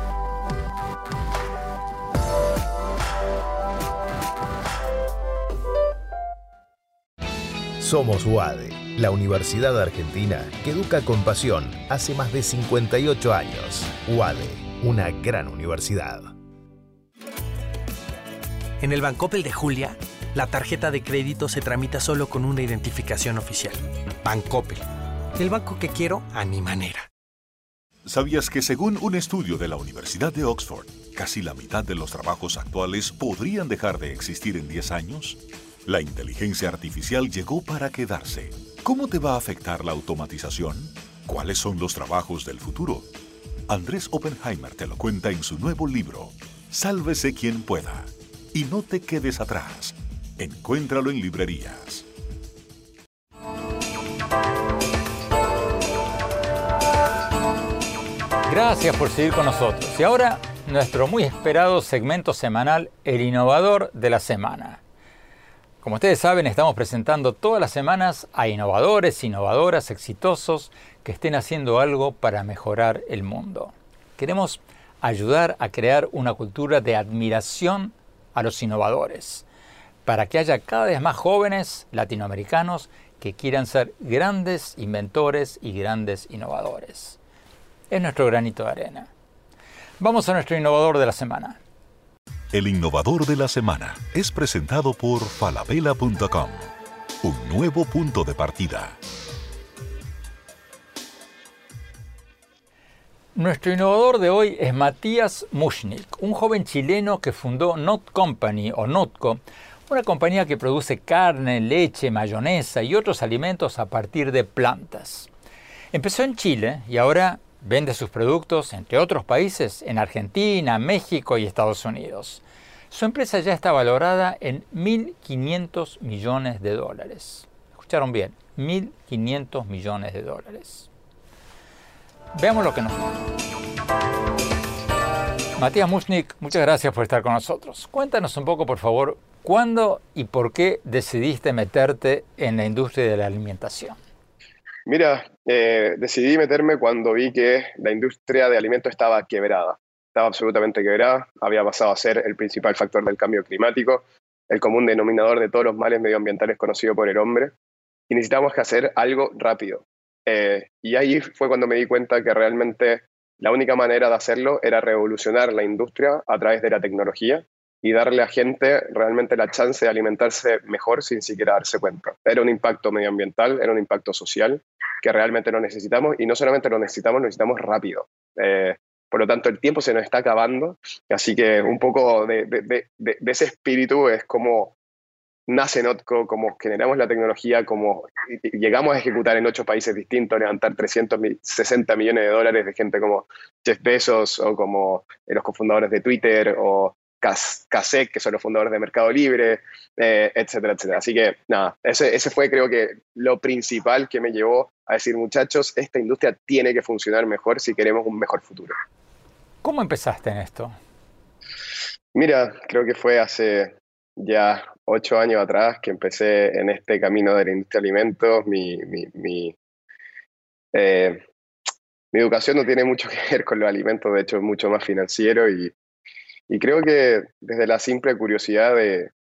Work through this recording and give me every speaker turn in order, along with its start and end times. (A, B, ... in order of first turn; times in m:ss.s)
0:07.8-0:16.3 A
0:18.8-0:24.8 B
0:25.4-0:27.1 B
0:28.1-0:43.1 C
0:43.7-0:52.1 C
0:58.5-1:04.8 D
1:05.8-1:19.5 D
1:20.0-1:27.2 D
1:27.9-1:29.1 D
1:30.0-1:31.6 D
1:32.5-1:36.7 C
1:37.2-1:39.0 C
1:43.4-1:55.3 D
1:55.9-2:10.9 D
2:12.4-2:13.3 D
2:15.6-2:24.0 D
2:24.9-2:37.5 E
2:38.1-3:04.8 E
3:05.5-3:28.8 E
3:29.6-3:30.8 D
3:32.1-3:39.6 E
3:40.7-3:41.2 E
3:42.1-3:45.7 E
3:46.5-3:49.1 E